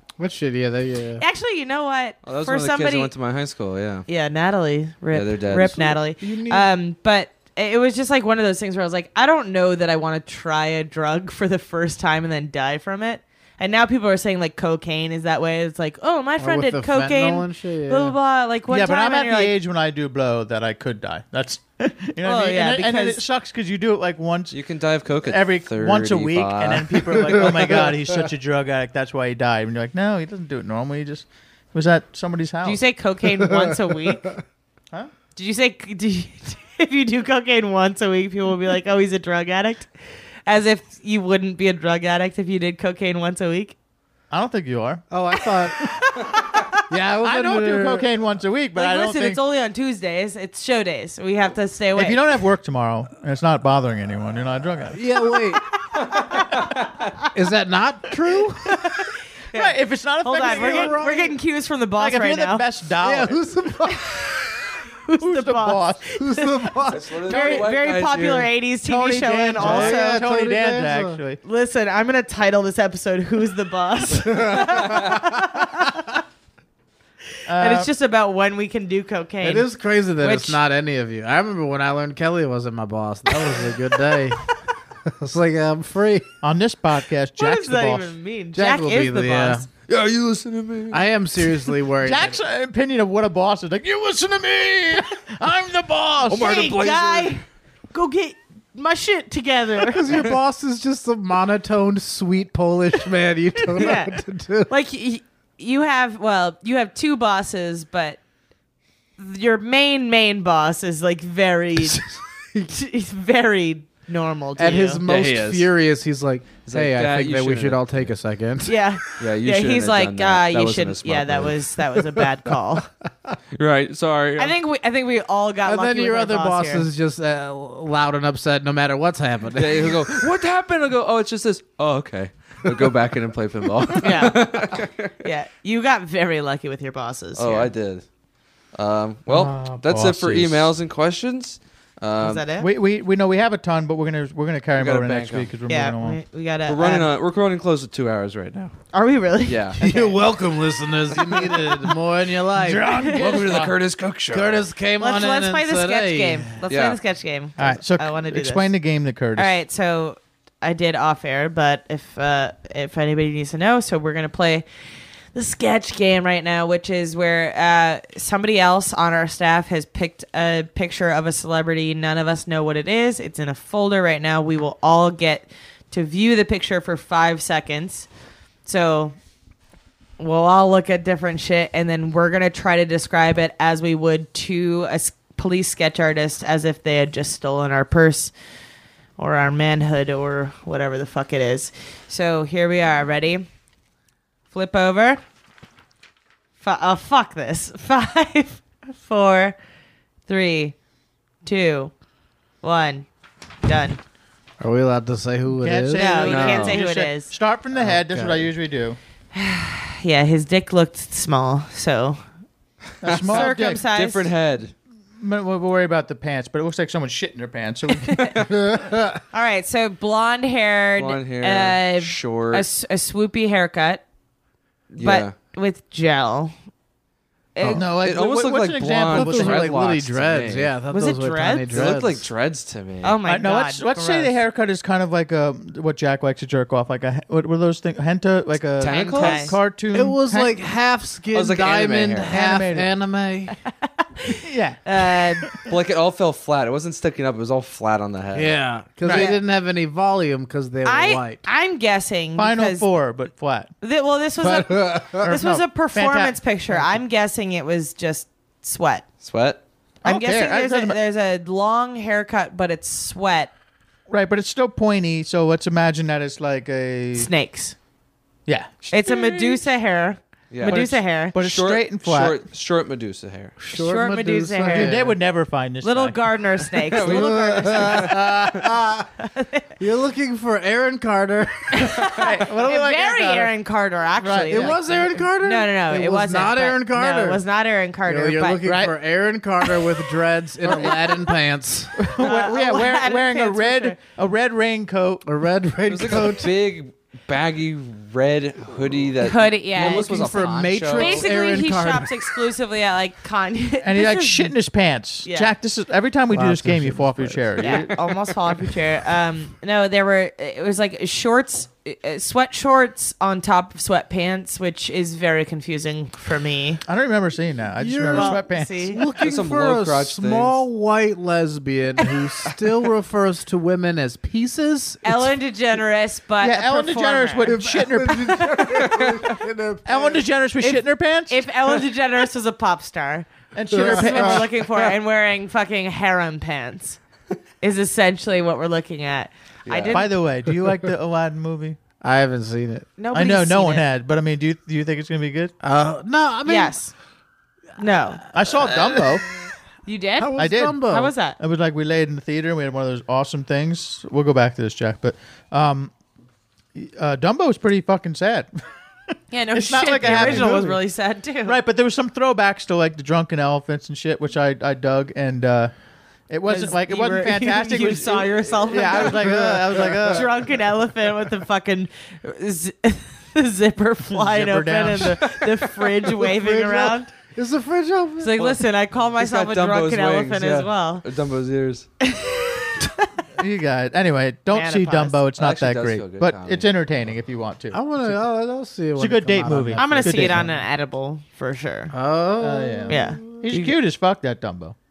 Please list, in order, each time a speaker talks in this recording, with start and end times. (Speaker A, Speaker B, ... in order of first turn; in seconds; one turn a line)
Speaker A: 0.2-1.2
Speaker B: 1.2-3.1
Speaker C: 2.2-4.0
Speaker B: 4.1-19.5
Speaker C: 5.1-5.8
Speaker A: 5.6-6.7
Speaker A: 16.4-18.1
Speaker D: 18.7-24.6
Speaker B: 21.8-23.2
Speaker C: 24.5-27.8
Speaker D: 25.2-32.8
Speaker A: 27.2-27.9
Speaker B: 32.6-34.3
Speaker A: 33.4-33.9
Speaker B: 35.4-39.9
Speaker B: 40.5-43.7
Speaker D: 44.3-45.0
Speaker A: 45.1-45.9
Speaker A: 46.9-48.1
Speaker D: 47.2-49.4
Speaker B: 48.7-52.2
Speaker D: 51.9-55.0
Speaker A: 54.9-55.6
Speaker A: 57.3-58.8
Speaker B: 58.7-62.6
Speaker D: 59.5-61.1
Speaker A: 60.4-61.4
Speaker D: 62.0-63.4
Speaker A: 63.0-64.4
Speaker B: 65.0-66.5
Speaker D: 65.2-66.0
Speaker A: 66.2-67.2
Speaker C: 66.9-68.5
Speaker B: 67.2-70.2
Speaker D: 67.3-67.6
Speaker D: 68.8-71.4
Speaker A: 69.2-71.2
Speaker B: 71.4-76.1
Speaker A: 74.3-75.2
Speaker D: 77.5-77.9
Speaker B: 77.6-80.6
Speaker A: 79.4-84.4
Speaker A: 85.1-86.2
Speaker D: 86.4-88.1
Speaker B: 87.4-89.7
Speaker A: 88.5-89.7
Speaker C: 89.9-91.7
Speaker A: 90.9-92.4
Speaker D: 92.0-96.7
Speaker C: 96.2-97.4
Speaker B: 96.3-100.1
Speaker A: 99.8-104.7
Speaker B: 103.8-108.2
Speaker B: 109.2-112.0
Speaker A: 111.9-112.6
Speaker B: 112.7-115.0
Speaker A: 114.6-118.8
Speaker C: 115.0-115.7
Speaker C: 116.7-118.1
Speaker B: 118.6-122.9
Speaker C: 119.2-121.7
Speaker C: 123.5-124.5
Speaker B: 124.4-126.8
Speaker A: 125.6-130.2
Speaker C: 129.5-135.1
Speaker B: 134.0-134.6
Speaker B: 135.2-137.7
Speaker C: 137.3-138.0
Speaker C: 138.7-142.4
Speaker D: 139.3-140.7
Speaker B: 142.2-142.7
Speaker D: 142.6-146.2
Speaker C: 144.8-145.5
Speaker B: 145.7-147.1
Speaker C: 146.7-148.7
Speaker B: 148.9-150.1
Speaker C: 149.4-149.8
Speaker A: 149.8-153.2
Speaker D: 152.5-153.7
Speaker B: 152.9-153.2
Speaker C: 153.1-154.7
Speaker A: 154.3-156.6
Speaker B: 155.0-158.7
Speaker C: 156.7-157.0
Speaker D: 157.6-159.5
Speaker B: 159.3-164.6
Speaker B: 165.3-178.1
Speaker B: 178.7-179.2
Speaker B: 180.2-188.3
Speaker B: 189.2-193.4
Speaker B: 194.5-195.2
Speaker B: 196.6-199.6
Speaker B: 200.3-200.8
Speaker B: 201.4-201.9
Speaker B: 202.6-203.1
Speaker B: 203.6-204.0
Speaker A: 204.6-206.1
Speaker D: 205.5-209.0
Speaker B: 205.9-207.3
Speaker C: 206.2-206.8
Speaker A: 207.7-208.5
Speaker B: 209.3-212.2
Speaker D: 213.0-213.8
Speaker C: 213.0-214.7
Speaker B: 213.3-214.3
Speaker D: 215.2-218.5
Speaker A: 218.5-219.2
Speaker B: 219.3-224.0
Speaker C: 221.0-222.7
Speaker B: 224.9-226.5
Speaker C: 225.0-225.3
Speaker B: 227.5-227.8
Speaker C: 227.6-230.7
Speaker D: 227.7-229.7
Speaker A: 229.1-232.3
Speaker B: 230.9-231.7
Speaker C: 231.7-233.2
Speaker B: 233.0-234.4
Speaker D: 233.2-240.6
Speaker C: 238.8-239.6
Speaker B: 238.8-239.5
Speaker A: 239.9-243.5
Speaker C: 241.3-242.3
Speaker D: 242.2-242.9
Speaker B: 244.0-245.5
Speaker D: 244.3-245.6
Speaker C: 245.7-248.6
Speaker A: 248.3-251.4
Speaker D: 249.0-249.3
Speaker B: 249.1-249.4
Speaker B: 250.8-252.9
Speaker D: 252.3-253.7
Speaker B: 253.8-259.1
Speaker A: 254.4-255.3
Speaker D: 255.2-256.8
Speaker C: 259.2-259.6
Speaker D: 260.0-261.0
Speaker B: 260.0-263.5
Speaker D: 264.1-267.3
Speaker B: 267.1-267.8
Speaker D: 268.5-268.9
Speaker B: 268.9-271.3
Speaker C: 269.1-269.5
Speaker C: 270.5-270.8
Speaker D: 270.6-272.4
Speaker C: 271.3-273.5
Speaker A: 273.6-275.2
Speaker B: 273.7-274.9
Speaker D: 274.7-276.2
Speaker B: 275.8-278.1
Speaker C: 276.9-278.1
Speaker A: 277.0-279.1
Speaker D: 277.2-278.7
Speaker B: 279.2-279.7
Speaker A: 279.8-281.9
Speaker B: 281.8-288.7
Speaker D: 282.0-283.5
Speaker D: 284.2-285.2
Speaker A: 284.5-287.4
Speaker A: 288.1-291.9
Speaker D: 288.6-288.9
Speaker D: 290.6-291.0
Speaker D: 292.0-295.2
Speaker B: 292.2-294.0
Speaker A: 295.2-296.5
Speaker C: 295.9-301.3
Speaker B: 299.2-300.3
Speaker A: 299.8-302.3
Speaker B: 300.9-304.5
Speaker D: 303.8-307.9
Speaker B: 305.2-305.5
Speaker A: 306.3-307.6
Speaker B: 307.6-316.8
Speaker D: 316.9-319.0
Speaker A: 317.8-325.3
Speaker B: 318.1-319.0
Speaker C: 319.2-320.6
Speaker B: 325.0-327.6
Speaker D: 326.4-328.9
Speaker A: 327.4-330.2
Speaker D: 329.8-331.4
Speaker B: 331.3-337.0
Speaker D: 333.5-334.5
Speaker A: 333.7-334.5
Speaker B: 337.6-340.1
Speaker C: 339.7-340.0
Speaker D: 339.9-341.8
Speaker A: 342.0-342.9
Speaker B: 343.0-343.9
Speaker D: 343.1-345.5
Speaker A: 345.6-346.8
Speaker B: 346.4-346.9
Speaker B: 347.8-348.2
Speaker D: 348.3-349.3
Speaker A: 348.5-349.1
Speaker B: 349.9-351.4
Speaker A: 350.2-351.1
Speaker D: 350.4-355.9
Speaker D: 356.7-358.5
Speaker B: 359.3-361.6
Speaker D: 359.5-360.8
Speaker A: 360.0-360.7
Speaker D: 361.4-365.7
Speaker D: 366.3-370.5
Speaker B: 366.5-377.1
Speaker A: 369.0-370.2
Speaker D: 374.1-375.4
Speaker A: 376.1-378.4
Speaker B: 378.2-381.0
Speaker C: 379.1-381.9
Speaker B: 382.0-383.1
Speaker D: 383.4-388.2
Speaker B: 384.5-385.2
Speaker C: 385.4-386.7
Speaker A: 387.7-390.5
Speaker D: 388.9-390.5
Speaker B: 389.8-391.9
Speaker A: 391.9-393.4
Speaker D: 392.4-394.7
Speaker B: 392.9-393.7